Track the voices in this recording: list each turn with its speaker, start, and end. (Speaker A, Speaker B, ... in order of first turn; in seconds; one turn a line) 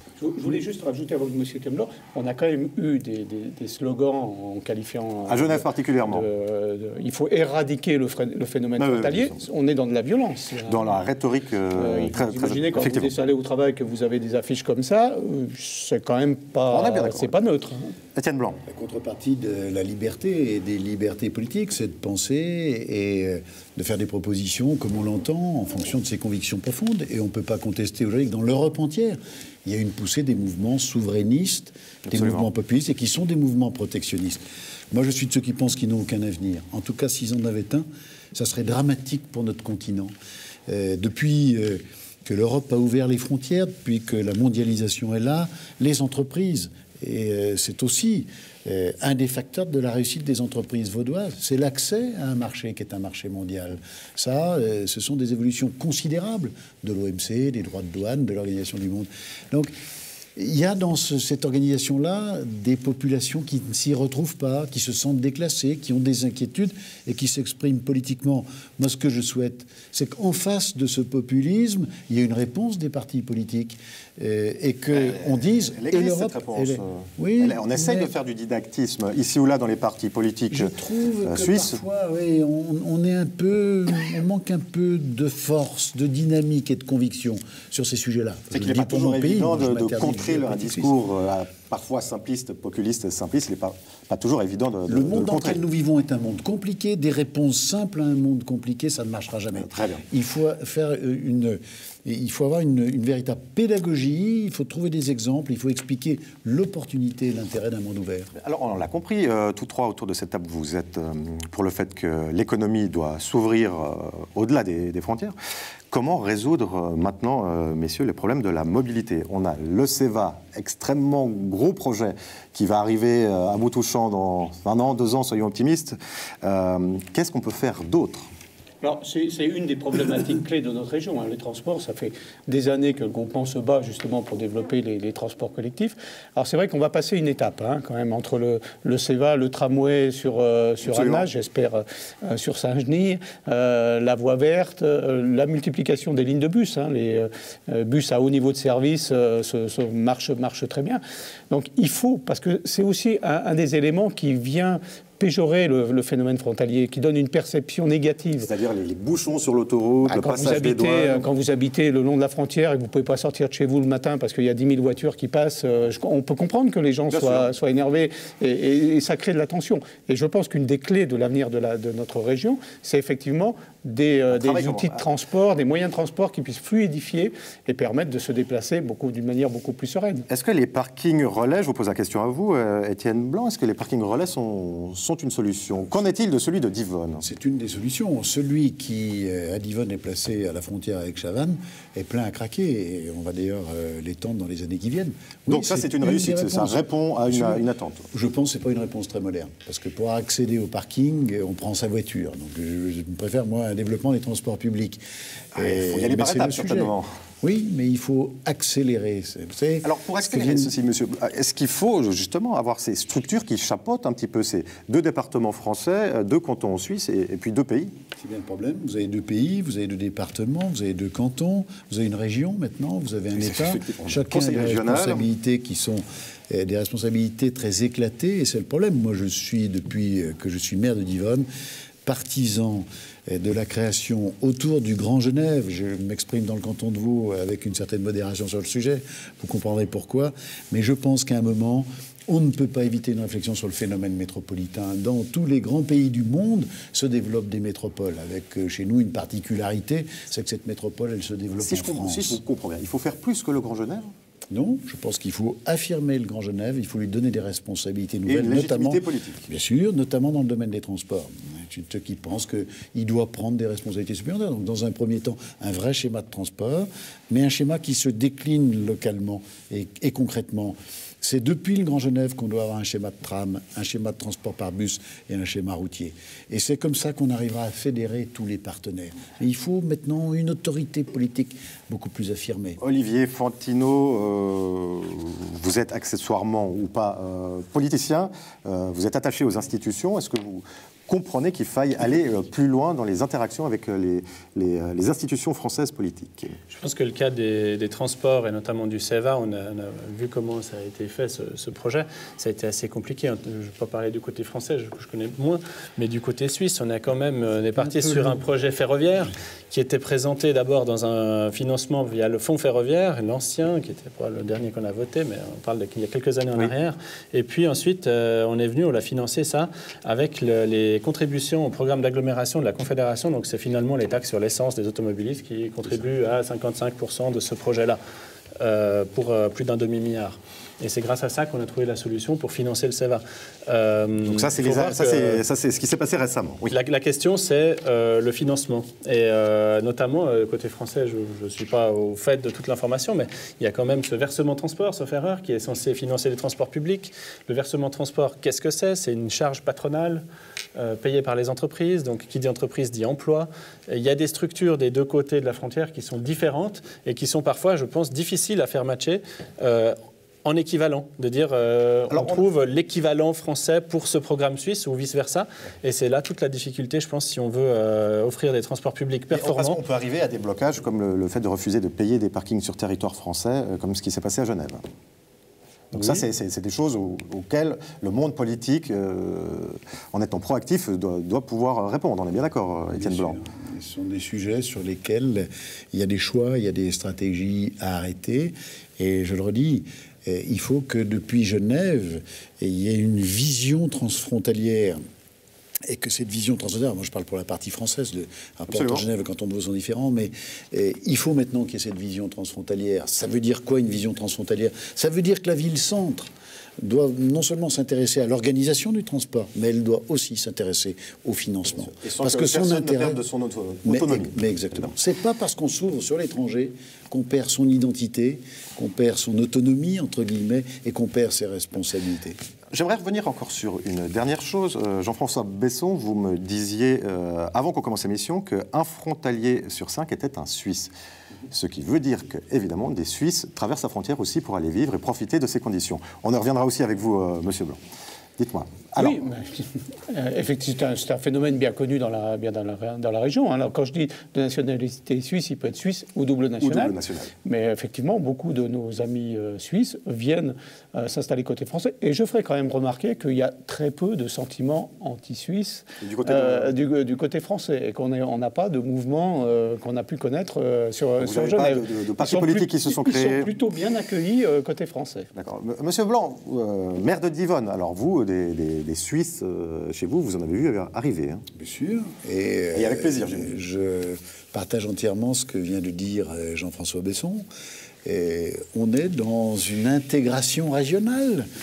Speaker A: 0.2-10.8
Speaker B: 5.3-6.2
Speaker B: 8.8-9.4
Speaker B: 10.7-13.1
Speaker A: 11.7-17.9
Speaker B: 16.7-17.3
Speaker B: 18.1-18.6
Speaker C: 18.6-34.4
Speaker B: 32.1-32.5
Speaker C: 34.9-40.1
Speaker C: 40.7-59.7
Speaker C: 60.4-78.1
Speaker B: 74.9-80.7
Speaker C: 80.5-91.0
Speaker B: 81.2-81.8
Speaker B: 88.5-95.6
Speaker C: 94.9-108.3
Speaker B: 99.6-100.0
Speaker B: 108.3-115.3
Speaker B: 115.9-128.3
Speaker A: 128.8-158.5
Speaker B: 140.8-141.2
Speaker B: 158.4-161.2
Speaker A: 160.0-180.2
Speaker B: 167.1-167.5
Speaker B: 174.3-175.0
Speaker B: 180.3-187.2
Speaker C: 187.2-205.0
Speaker B: 195.5-198.1
Speaker C: 205.5-210.7
Speaker B: 205.6-207.1
Speaker B: 209.8-217.9
Speaker C: 218.2-231.4
Speaker B: 223.3-225.3
Speaker C: 232.0-252.4
Speaker B: 251.6-254.1
Speaker C: 254.5-282.8
Speaker B: 258.2-259.4
Speaker B: 282.8-296.6
Speaker D: 296.7-328.0
Speaker C: 307.8-308.4
Speaker D: 328.6-335.4
Speaker B: 334.2-336.7
Speaker D: 336.7-350.2
Speaker D: 350.7-369.8
Speaker B: 362.1-362.4
Speaker B: 369.3-374.8
Speaker B: 375.9-383.4
Speaker D: 375.9-376.2
Speaker C: 382.9-395.0
Speaker C: 395.9-406.3
Speaker B: 398.7-399.0
Speaker C: 406.8-413.2
Speaker B: 411.9-414.8
Speaker C: 413.8-422.4
Speaker B: 422.7-430.9
Speaker B: 431.5-437.8
Speaker B: 438.4-439.2
Speaker A: 439.0-465.3
Speaker B: 446.6-447.3
Speaker B: 456.0-456.8
Speaker B: 461.2-463.5
Speaker B: 465.3-471.4
Speaker C: 471.5-477.4
Speaker B: 472.7-473.6
Speaker C: 478.0-481.5